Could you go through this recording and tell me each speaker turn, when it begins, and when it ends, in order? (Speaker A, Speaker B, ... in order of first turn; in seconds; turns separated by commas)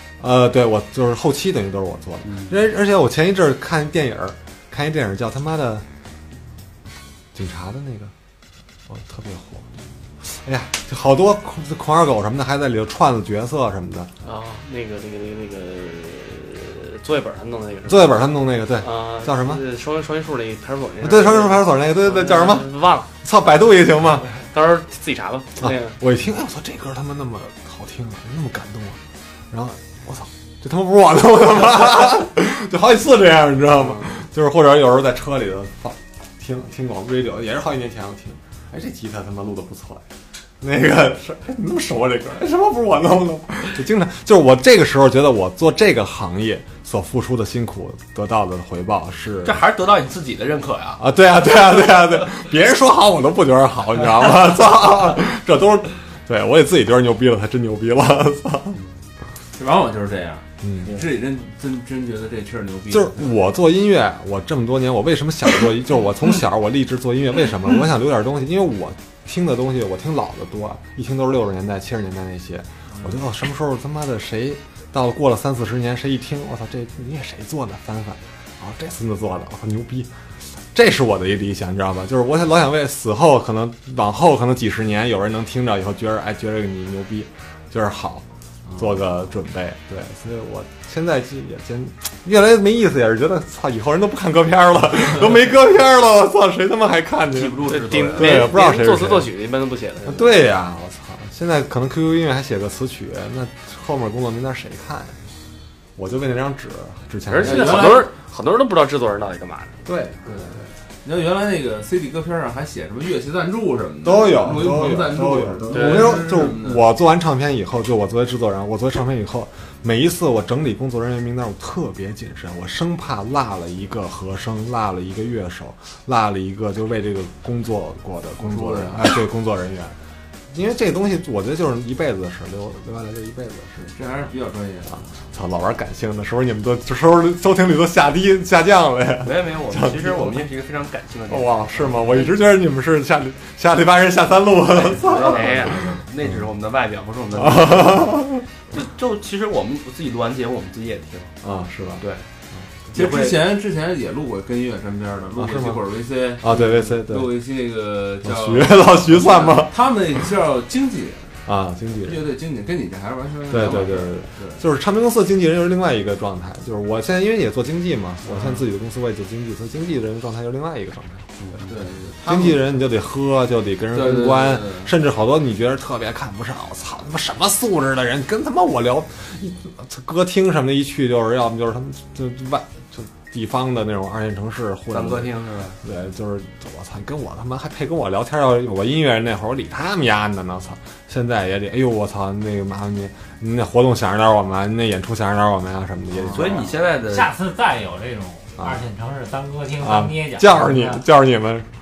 Speaker A: 0.2-5.8, Speaker B: 2.2-2.5, Speaker A: 7.3-8.1, Speaker A: 8.9-9.7, Speaker A: 10.2-14.1, Speaker C: 14.2-18.2, Speaker A: 17.9-19.6, Speaker C: 18.8-23.1, Speaker A: 21.0-24.3, Speaker C: 24.4-25.9, Speaker A: 25.6-29.0, Speaker A: 29.5-40.0, Speaker A: 40.6-49.6, Speaker B: 49.4-51.0, Speaker A: 51.0-58.8, Speaker D: 59.5-63.4, Speaker A: 60.6-60.9, Speaker A: 62.9-80.1, Speaker D: 72.9-73.2, Speaker A: 80.7-88.2, Speaker D: 88.7-89.0, Speaker A: 88.8-99.3, Speaker B: 97.3-98.5, Speaker C: 97.7-100.4, Speaker A: 100.0-105.2, Speaker A: 106.0-108.0, Speaker C: 107.3-109.8, Speaker D: 107.4-108.1, Speaker A: 109.9-110.6, Speaker D: 110.2-116.9, Speaker A: 114.0-129.9, Speaker C: 115.7-116.1, Speaker D: 128.4-129.1, Speaker A: 130.5-134.0, Speaker D: 133.8-135.1, Speaker A: 134.9-140.4, Speaker B: 139.2-142.4, Speaker A: 141.3-146.4, Speaker B: 144.7-151.3, Speaker C: 145.1-145.8, Speaker A: 147.3-148.4, Speaker A: 151.4-152.0, Speaker A: 152.6-153.0, Speaker D: 152.9-161.4, Speaker B: 152.9-153.4, Speaker A: 155.4-155.8, Speaker A: 156.4-157.3, Speaker A: 158.2-159.8, Speaker A: 161.4-162.2, Speaker D: 162.0-164.6, Speaker A: 163.5-171.3, Speaker D: 168.3-168.6, Speaker B: 171.4-171.7, Speaker D: 171.6-172.6, Speaker A: 172.3-196.8, Speaker D: 173.9-174.9, Speaker B: 184.9-185.8, Speaker B: 196.2-197.3, Speaker E: 197.1-201.0, Speaker A: 199.8-201.7